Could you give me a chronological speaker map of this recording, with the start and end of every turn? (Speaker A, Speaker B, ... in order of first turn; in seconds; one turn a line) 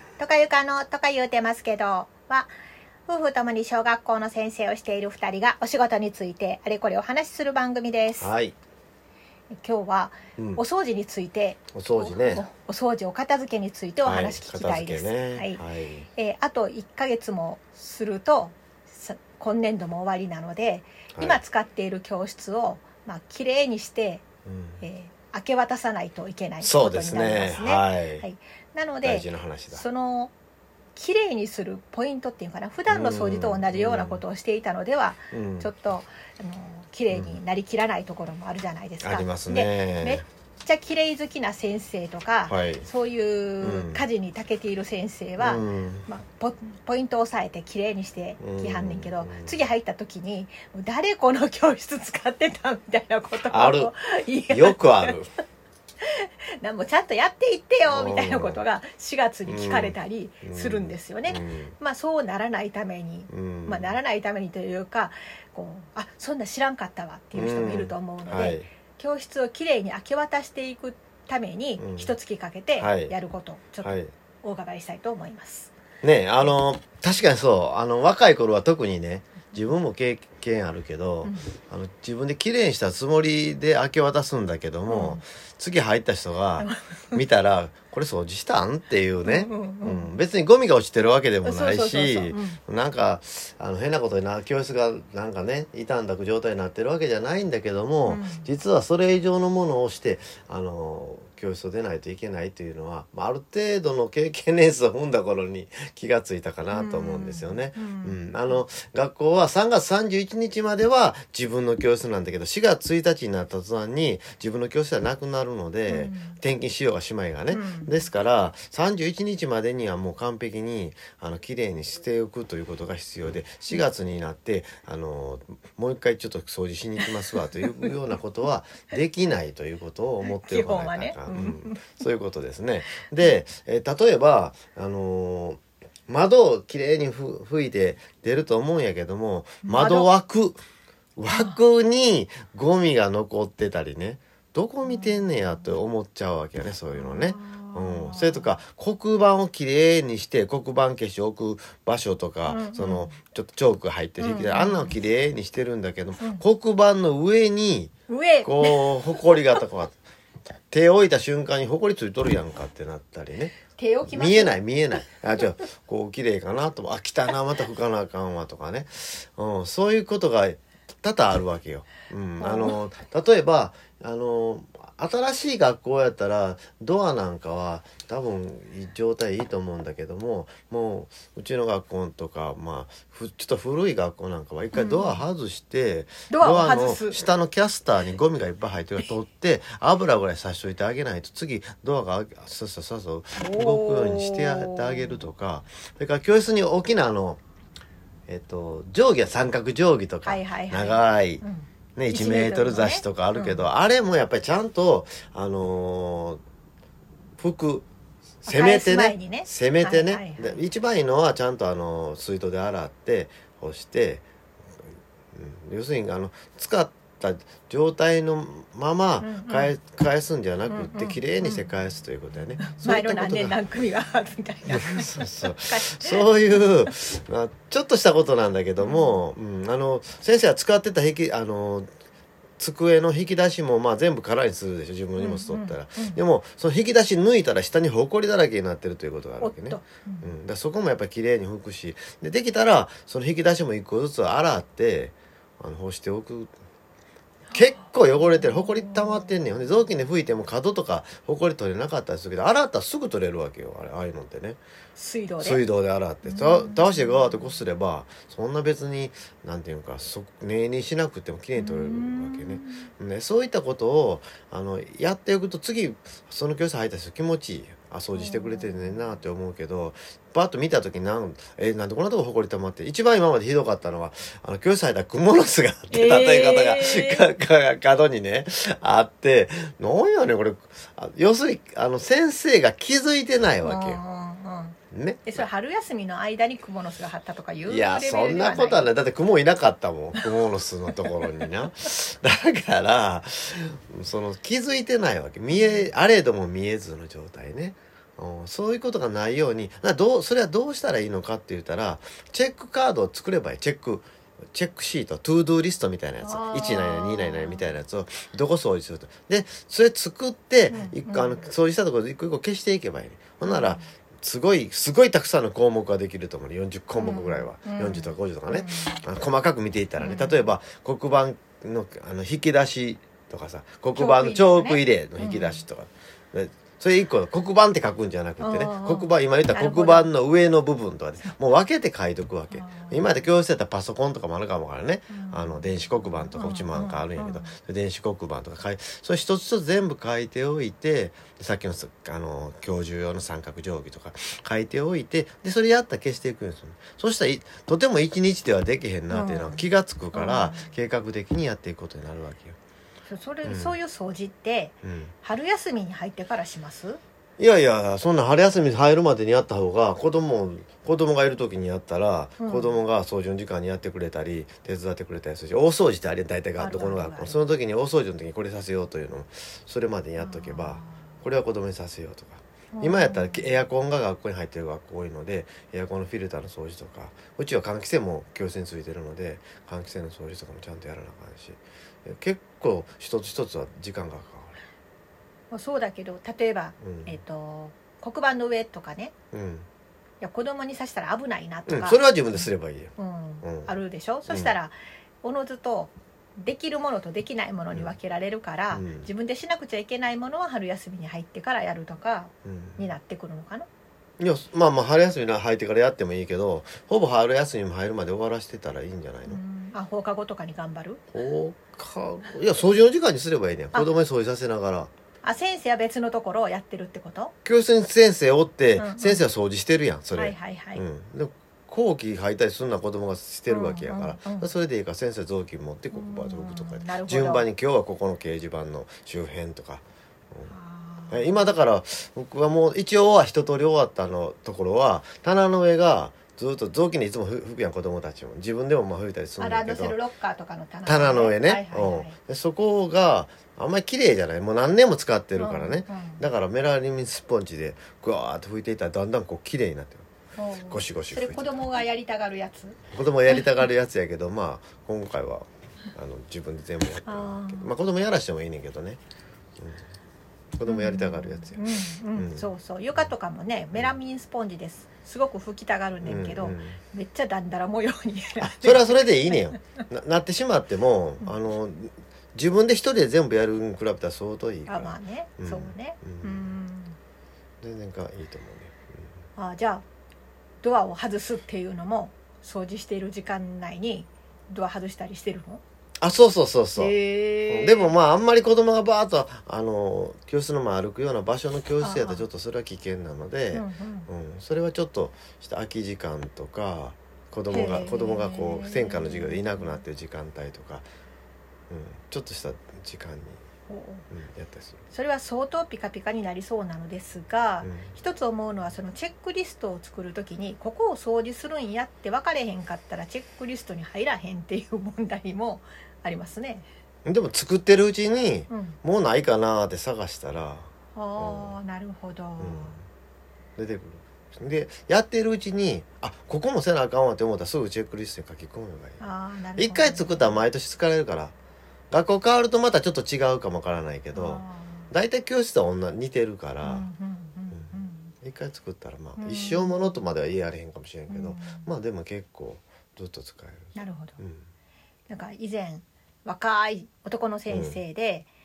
Speaker A: 0.2-2.5
Speaker A: 3.1-8.3
Speaker B: 8.2-8.6
Speaker A: 9.6-15.6
Speaker B: 10.4-10.6
Speaker B: 11.7-12.4
Speaker B: 14.0-16.1
Speaker A: 16.1-24.2
Speaker B: 21.1-21.4
Speaker B: 24.4-24.8
Speaker A: 24.8-30.3
Speaker B: 26.6-28.2
Speaker B: 29.0-29.8
Speaker A: 30.9-55.1
Speaker B: 32.9-34.2
Speaker B: 35.3-35.7
Speaker B: 37.1-37.3
Speaker B: 39.0-40.2
Speaker B: 42.5-42.9
Speaker B: 43.6-44.0
Speaker B: 45.4-46.1
Speaker B: 48.4-49.6
Speaker B: 53.5-53.9
Speaker B: 54.5-55.3
Speaker A: 56.0-75.7
Speaker B: 57.9-58.6
Speaker B: 59.5-61.7
Speaker B: 63.3-64.0
Speaker B: 67.3-68.7
Speaker B: 71.8-72.1
Speaker B: 72.8-73.1
Speaker B: 73.8-74.1
Speaker B: 76.0-140.6
Speaker A: 81.2-81.5
Speaker A: 84.9-85.2
Speaker A: 86.6-87.2
Speaker A: 89.2-90.1
Speaker A: 91.4-92.6
Speaker A: 98.0-98.5
Speaker A: 106.7-108.6
Speaker A: 115.9-116.4
Speaker A: 117.5-118.0
Speaker A: 127.6-127.9
Speaker A: 130.2-132.1
Speaker A: 139.6-140.1
Speaker B: 141.2-157.9
Speaker A: 141.3-141.6
Speaker A: 144.8-145.6
Speaker A: 146.9-148.5
Speaker A: 152.5-153.1
Speaker A: 154.2-154.9
Speaker A: 158.1-159.6
Speaker B: 158.4-160.0
Speaker B: 160.7-163.5
Speaker A: 163.7-164.6
Speaker B: 164.0-197.4
Speaker A: 172.4-172.8
Speaker A: 184.7-185.2
Speaker A: 186.3-187.2
Speaker A: 193.4-195.2
Speaker B: 198.3-201.4
Speaker A: 200.2-203.7
Speaker B: 201.9-206.4
Speaker B: 207.4-207.8
Speaker A: 208.4-210.6
Speaker B: 208.4-214.2
Speaker B: 214.8-223.6
Speaker A: 219.2-219.7
Speaker A: 220.7-221.7
Speaker A: 222.6-226.6
Speaker B: 224.7-231.9
Speaker A: 228.8-229.2
Speaker B: 232.6-246.5
Speaker A: 235.2-236.2
Speaker A: 239.4-240.3
Speaker A: 247.5-249.4
Speaker B: 247.5-254.6
Speaker A: 254.9-255.6
Speaker B: 255.4-284.0
Speaker A: 256.2-257.6
Speaker A: 261.5-262.9
Speaker A: 268.1-269.0
Speaker A: 275.9-277.2
Speaker A: 283.6-288.9
Speaker B: 284.9-285.5
Speaker B: 287.7-352.6
Speaker A: 295.5-295.9
Speaker A: 306.2-307.7
Speaker A: 310.7-311.5
Speaker A: 313.4-313.9
Speaker A: 316.9-319.0
Speaker A: 320.0-320.5
Speaker A: 323.9-325.6
Speaker A: 328.4-330.1
Speaker A: 332.5-333.2
Speaker A: 335.1-337.5
Speaker A: 349.1-350.7
Speaker A: 353.1-357.0
Speaker B: 353.4-353.8
Speaker B: 354.8-355.1
Speaker B: 357.4-384.6
Speaker A: 362.4-362.8
Speaker A: 366.6-367.4
Speaker A: 370.2-371.2
Speaker A: 372.7-373.5
Speaker A: 385.5-389.1
Speaker B: 386.8-387.2
Speaker B: 389.3-389.7
Speaker A: 390.2-403.7
Speaker B: 391.7-393.7
Speaker B: 394.3-394.5
Speaker B: 398.7-399.1
Speaker B: 402.4-402.9
Speaker B: 404.2-409.4
Speaker A: 409.3-411.0
Speaker B: 411.1-414.9
Speaker A: 415.2-417.3
Speaker B: 417.4-430.5
Speaker A: 418.8-419.2
Speaker A: 420.1-420.8
Speaker A: 423.5-424.5
Speaker A: 425.9-427.5
Speaker A: 430.5-431.4
Speaker B: 431.1-440.0
Speaker A: 439.4-442.1
Speaker B: 440.9-450.1
Speaker A: 445.4-446.2
Speaker A: 450.4-452.8
Speaker B: 450.7-451.6
Speaker B: 452.9-459.0
Speaker A: 457.1-457.7
Speaker B: 459.6-459.8
Speaker B: 460.6-463.1
Speaker A: 460.7-469.5
Speaker B: 466.0-466.8
Speaker B: 468.4-476.5
Speaker A: 474.6-477.0
Speaker B: 477.6-479.1
Speaker A: 479.4-479.8
Speaker A: 480.6-485.6
Speaker B: 486.0-487.0
Speaker A: 486.8-487.9
Speaker B: 487.5-500.9
Speaker A: 491.8-492.2
Speaker A: 493.5-494.1
Speaker A: 497.5-499.8
Speaker B: 501.7-503.4
Speaker A: 503.7-504.1
Speaker B: 504.1-504.8
Speaker A: 504.9-516.7
Speaker B: 507.6-507.9
Speaker B: 517.0-521.6
Speaker A: 518.5-518.8
Speaker A: 520.9-522.8
Speaker B: 522.4-522.9
Speaker B: 523.6-531.3
Speaker A: 529.0-530.4
Speaker B: 531.9-536.9
Speaker A: 534.1-534.9
Speaker A: 536.6-538.1
Speaker B: 537.5-544.4
Speaker A: 539.2-539.8
Speaker A: 541.1-541.7
Speaker A: 543.8-544.2
Speaker A: 545.1-548.3
Speaker B: 547.5-547.8